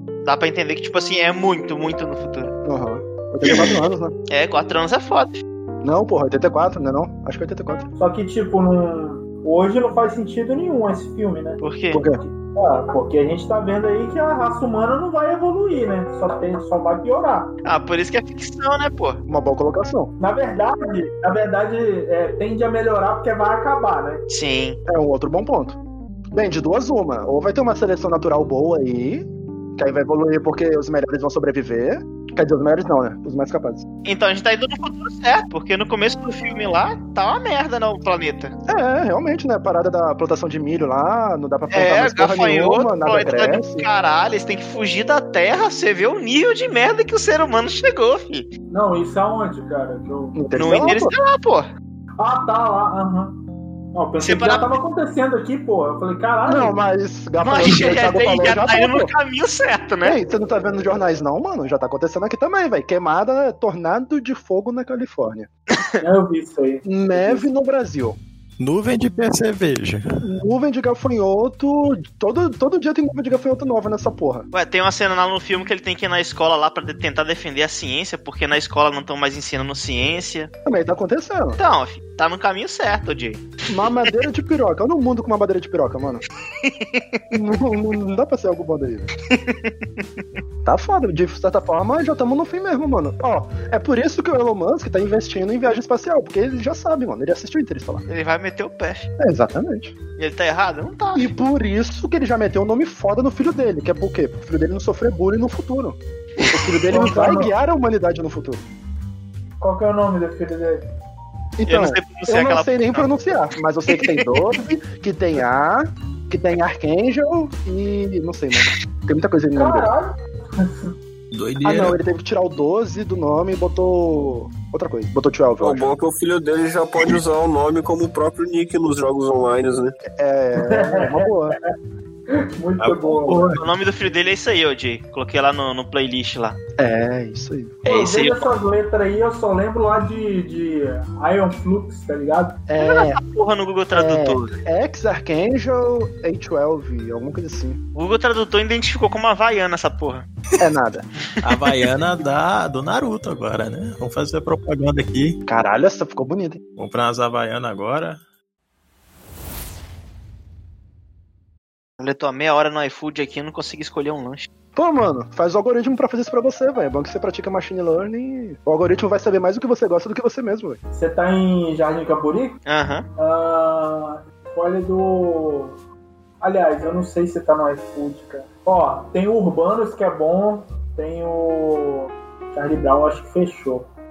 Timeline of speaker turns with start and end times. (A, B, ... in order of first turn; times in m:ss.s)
0:00.2-0:02.5 A
0:02.7-0:04.2 B
0:03.4-0:05.4 A
0:05.8-0:07.9 B
0:08.0-0:11.6 C
0:11.6-0:12.1 A
0:11.9-0:12.2 B
0:12.2-0:17.5 C
0:17.6-0:19.2 A
0:19.3-0:20.1 B
0:20.2-0:24.2 C
0:24.3-0:24.8 A
0:24.9-0:25.8 B
0:26.3-0:33.9 B
0:34.0-0:38.6 A
0:38.7-0:43.9 B
0:41.7-0:48.5 A
0:48.7-0:50.4 C
0:50.4-0:51.1 B
0:50.6-0:51.7 A
0:52.2-0:53.4 C
0:53.9-0:56.8 C
0:54.2-0:54.7 A
0:56.4-0:59.1 B
0:57.4-1:00.2 A
1:00.0-1:05.5 B
1:05.7-1:06.0 A
1:06.0-1:07.5 C
1:06.8-1:08.2 B
1:08.6-1:10.1 D
1:10.2-1:14.5 B
1:14.5-1:20.5 A
1:20.6-1:21.6 B
1:21.6-1:23.6 A
1:23.7-1:26.2 B
1:26.6-1:27.2 A
1:27.3-1:29.1 B
1:29.3-1:30.1 A
1:30.6-1:38.0 B
1:38.1-1:39.1 A
1:39.2-1:39.9 B
1:40.2-1:41.3 A
1:41.2-1:48.7 B
1:46.9-1:47.5 C
1:49.6-1:50.9 C
1:51.6-1:59.9 B
1:51.7-1:53.1 A
1:53.9-1:54.4 A
1:59.6-2:00.9 C
2:01.3-2:02.0 D
2:01.6-2:05.9 B
2:05.6-2:10.0 E
2:10.1-2:11.6 B
2:10.6-2:11.3 C
2:12.3-2:13.5 C
2:13.0-2:13.6 D
2:13.4-2:16.6 A
2:16.8-2:17.8 B
2:17.8-2:18.5 A
2:17.9-2:22.6 C
2:22.7-2:23.2 B
2:22.8-2:24.6 A
2:23.9-2:27.8 B
2:28.0-2:30.3 A
2:30.6-2:31.1 B
2:31.4-2:35.4 D
2:35.5-2:36.6 B
2:36.8-2:38.2 D
2:42.0-2:44.5 A
2:44.8-2:50.8 B
2:50.9-2:52.6 C
2:52.7-2:53.1 A
2:53.2-2:55.8 C
2:56.4-3:03.9 C